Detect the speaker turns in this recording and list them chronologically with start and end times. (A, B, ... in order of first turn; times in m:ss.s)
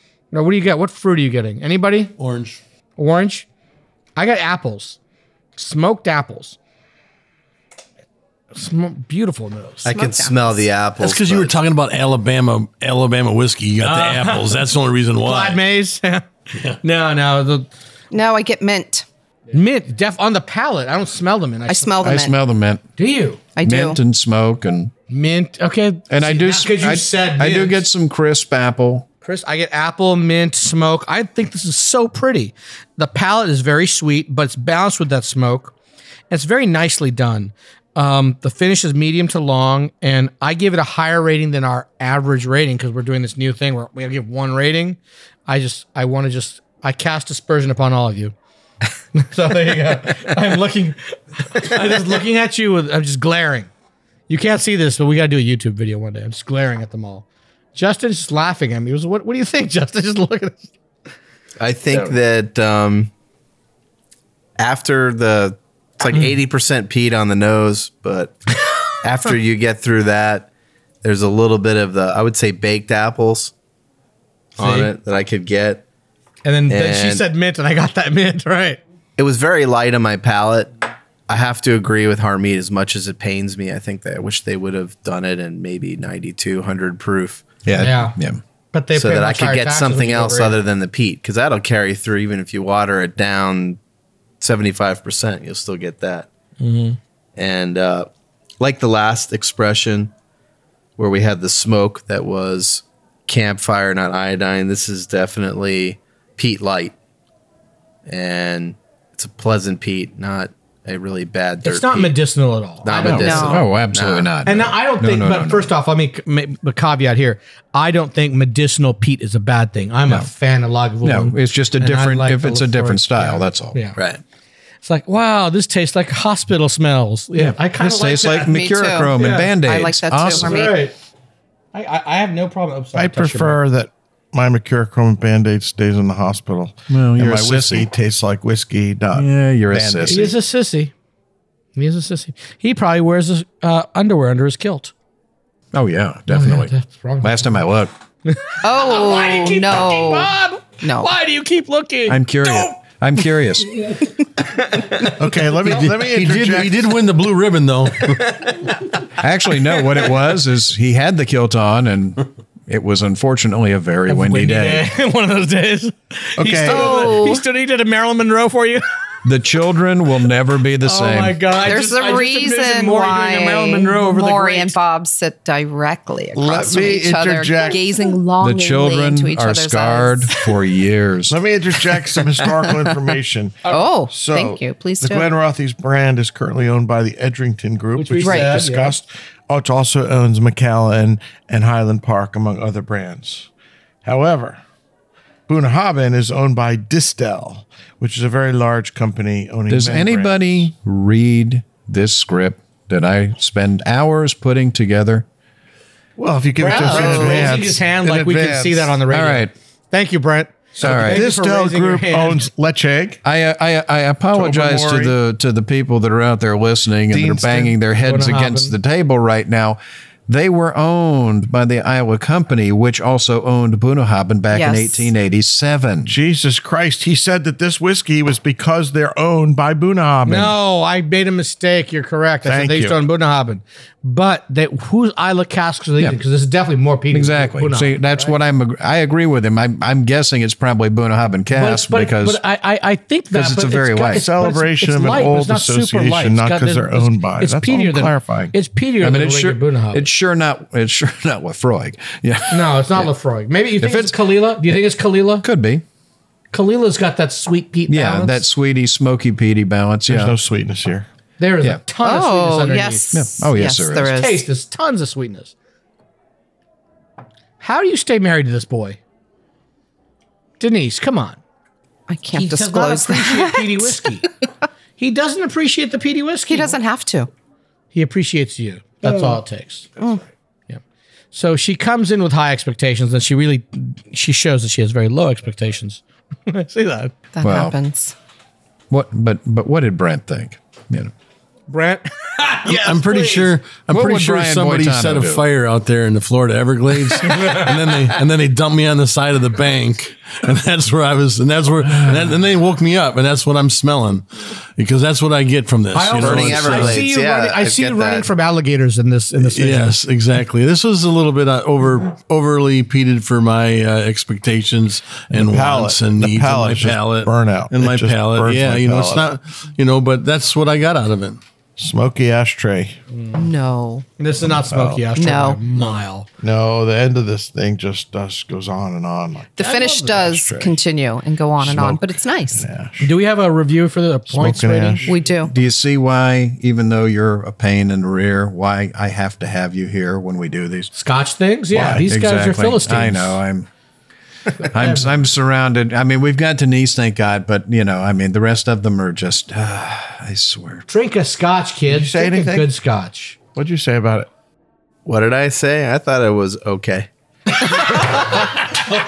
0:00.3-0:02.1 A
0:02.2-0:02.6 B
0:03.0-0:03.4 A
0:04.2-0:05.0 A
0:05.6-0:06.6 A
0:08.5-0:09.9 A
0:09.8-0:11.5 C
0:09.9-0:10.7 D
0:11.0-0:15.6 B
0:13.8-0:14.6 A
0:15.2-0:16.2 A
0:16.5-0:16.8 B
0:16.8-0:17.7 A
0:18.1-0:19.0 D
0:19.5-0:21.9 A
0:21.6-0:22.3 D
0:22.0-0:22.8 E
0:23.0-0:23.4 A
0:23.6-0:24.0 D
0:23.6-0:24.9 E
0:25.1-0:27.8 A
0:26.1-0:29.0 E
0:29.2-0:35.7 A
0:36.3-0:48.3 A
0:49.1-0:53.7 A
0:54.3-1:00.7 A
1:01.6-1:03.1 C
1:04.6-1:08.4 C
1:09.0-1:10.5 C
1:11.0-1:13.5 C
1:14.6-1:15.8 C
1:14.6-1:14.9 A
1:16.4-1:18.8 A
1:16.7-1:17.2 C
1:19.2-1:20.7 C
1:21.3-1:27.4 C
1:27.6-1:28.4 E
1:27.8-1:28.2 A
1:28.7-1:30.6 A
1:28.9-1:33.8 C
1:34.4-1:36.3 C
1:36.6-1:37.0 A
1:37.4-1:38.1 C
1:38.6-1:40.1 C
1:41.0-1:46.9 C
1:48.0-1:52.1 C
1:51.6-1:53.6 A
1:52.8-1:54.3 C
1:53.0-1:55.7 E
1:53.1-1:53.7 D
1:54.4-2:04.0 A
2:01.0-2:03.8 E
2:04.0-2:04.2 C
2:04.8-2:08.6 A
2:07.3-2:10.8 E
2:08.4-2:10.8 D
2:09.1-2:09.5 A
2:10.2-2:10.9 A
2:11.7-2:13.6 A
2:12.9-2:20.3 F
2:16.9-2:17.9 E
2:19.1-2:20.3 E
2:20.1-2:20.9 A
2:21.8-2:24.9 A
2:25.7-2:27.9 E
2:26.3-2:27.6 A
2:28.2-2:32.8 A
2:28.6-2:30.3 D
2:30.8-2:31.1 D
2:32.1-2:34.0 E
2:34.5-2:35.2 A
2:35.0-2:36.9 F
2:35.6-2:38.4 B
2:38.3-2:38.7 A
2:39.2-2:44.9 E
2:44.1-2:48.8 A
2:46.4-2:47.0 F
2:46.6-2:47.4 D
2:49.2-2:51.4 E
2:50.8-2:54.7 A
2:51.6-3:00.5 D
2:56.3-2:58.0 F
2:58.4-3:01.4 E
3:01.3-3:13.5 F
3:02.4-3:02.7 D
3:03.7-3:05.4 D
3:08.0-3:08.9 A
3:08.2-3:08.6 D
3:14.0-3:14.6 F
3:15.5-3:20.4 F
3:19.7-3:25.2 E
3:26.2-3:28.5 F
3:26.6-3:32.4 A
3:26.6-3:27.5 D
3:28.3-3:29.5 E
3:30.8-3:31.2 E
3:30.8-3:33.2 F
3:33.2-3:46.1 E
3:34.3-3:35.1 F
3:37.2-3:38.7 A
3:44.5-3:45.1 D
3:46.0-3:50.5 F
3:50.2-3:58.3 A
3:52.4-3:53.0 F
3:57.1-4:02.4 E
4:01.5-4:10.1 A
4:03.3-4:04.3 E
4:04.1-4:08.5 F
4:09.0-4:13.1 E
4:12.5-4:15.4 A
4:13.8-4:14.2 E
4:15.4-4:15.8 E
4:16.5-4:18.4 A
4:17.9-4:20.3 E
4:20.1-4:21.1 F
4:21.4-4:23.2 A
4:22.0-4:24.4 D
4:23.1-4:24.2 E
4:24.1-4:25.5 A
4:27.6-4:29.0 A
4:30.6-4:31.4 A
4:32.1-4:34.2 D
4:32.3-4:34.3 A
4:35.0-4:36.8 A
4:36.5-4:37.3 D
4:37.9-4:39.9 A
4:39.0-4:39.4 D
4:41.3-4:47.1 A
4:47.3-4:48.1 D
4:47.4-4:47.7 E
4:48.9-4:51.1 E
4:51.7-4:53.5 A
4:52.6-5:07.0 B
4:53.9-4:55.4 E
4:57.3-4:57.6 A
5:05.9-5:09.9 A
5:06.1-5:08.3 C
5:09.5-5:21.4 B
5:15.3-5:19.3 F
5:21.8-5:23.0 F
5:23.1-5:23.5 A
5:23.3-5:24.0 D
5:24.2-5:26.3 A
5:24.5-5:25.1 F
5:25.1-5:25.6 D
5:26.4-5:30.7 F
5:29.6-5:32.6 D
5:29.6-5:30.4 A
5:31.6-5:33.1 F
5:33.0-5:35.1 A
5:34.3-5:35.2 F
5:35.0-5:35.5 D
5:35.5-5:40.9 E
5:40.9-5:43.4 A
5:41.7-5:42.0 F
5:41.7-5:43.7 E
5:44.6-5:45.1 A
5:44.6-5:50.8 E
5:50.9-5:53.4 A
5:51.9-5:52.7 F
5:53.5-5:54.3 F
5:55.0-5:58.0 C
5:57.9-5:58.4 A